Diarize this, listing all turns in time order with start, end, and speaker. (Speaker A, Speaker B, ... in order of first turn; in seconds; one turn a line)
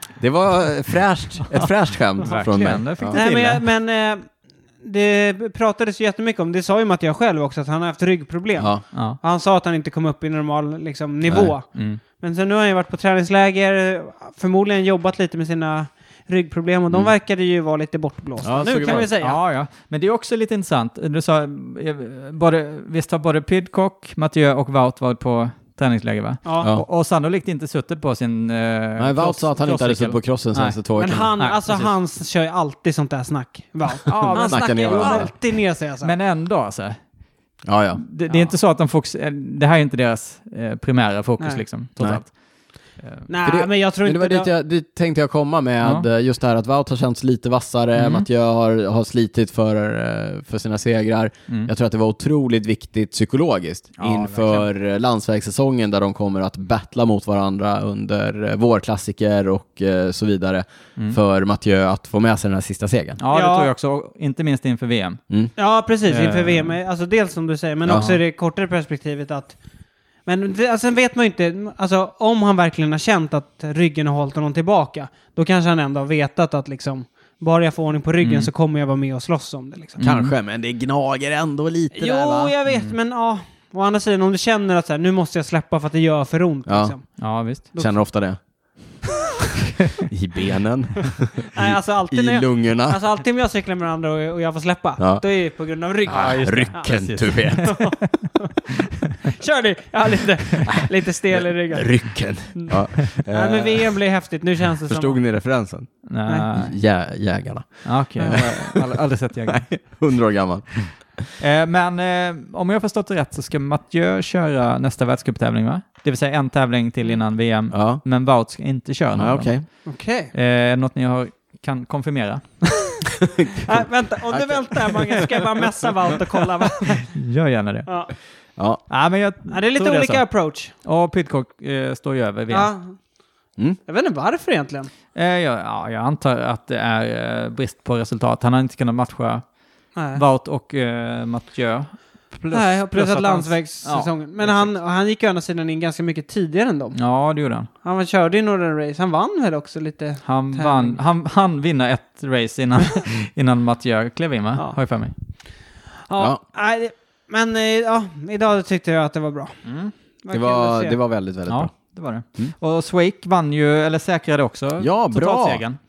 Speaker A: 0.2-3.2
Speaker B: 1.5-3.6
Speaker C: 2.2-19.4
Speaker A: 8.6-8.8
Speaker B: 8.9-9.2
Speaker A: 11.3-11.5
Speaker B: 11.7-12.0
Speaker A: 18.4-19.1
Speaker B: 18.7-30.8
Speaker C: 26.4-26.7
Speaker A: 29.0-31.3
Speaker C: 30.9-36.1
Speaker B: 31.4-31.9
Speaker B: 34.1-35.3
Speaker A: 34.3-35.3
Speaker B: 36.0-37.0
Speaker A: 37.7-38.0
Speaker B: 38.0-42.3
Speaker B: 43.0-43.3
Speaker C: 43.3-44.5
Speaker A: 43.4-63.2
Speaker B: 48.0-48.3
Speaker B: 54.0-54.7
Speaker B: 63.2-65.2
Speaker C: 63.3-63.7
Speaker C: 65.6-69.5
Speaker B: 66.0-66.8
Speaker B: 67.9-68.2
Speaker C: 70.3-80.0
Speaker B: 78.2-78.5
Speaker B: 80.0-80.3
Speaker A: 80.0-82.5
Speaker C: 82.0-87.2
Speaker B: 82.7-82.9
Speaker A: 86.7-87.0
Speaker B: 87.2-87.7
Speaker A: 87.7-88.4
Speaker A: 90.0-93.0
Speaker C: 91.5-105.2
Speaker A: 95.0-95.2
Speaker A: 96.1-97.8
Speaker B: 96.1-97.9
Speaker A: 101.7-104.0
Speaker A: 104.9-108.9
Speaker B: 106.0-106.8
Speaker B: 107.8-109.7
Speaker A: 109.5-111.2
Speaker B: 111.4-119.5
Speaker A: 117.7-118.0
Speaker A: 119.2-119.6
Speaker C: 119.9-120.3
Speaker B: 120.3-123.0
Speaker A: 123.2-125.3
Speaker C: 123.6-127.1
Speaker B: 127.1-127.9
Speaker C: 127.9-128.1
Speaker B: 128.9-130.2
Speaker C: 129.5-130.7
Speaker B: 130.8-132.7
Speaker C: 132.5-132.9
Speaker C: 133.9-134.9
Speaker B: 135.1-139.4
Speaker C: 139.9-140.2
Speaker B: 140.1-144.7
Speaker C: 142.5-147.0
Speaker B: 146.9-147.7
Speaker C: 147.8-151.0
Speaker B: 150.2-155.1
Speaker C: 156.1-159.6
Speaker B: 159.6-159.9
Speaker C: 160.2-160.9
Speaker A: 160.3-161.7
Speaker B: 161.5-165.8
Speaker A: 164.8-165.6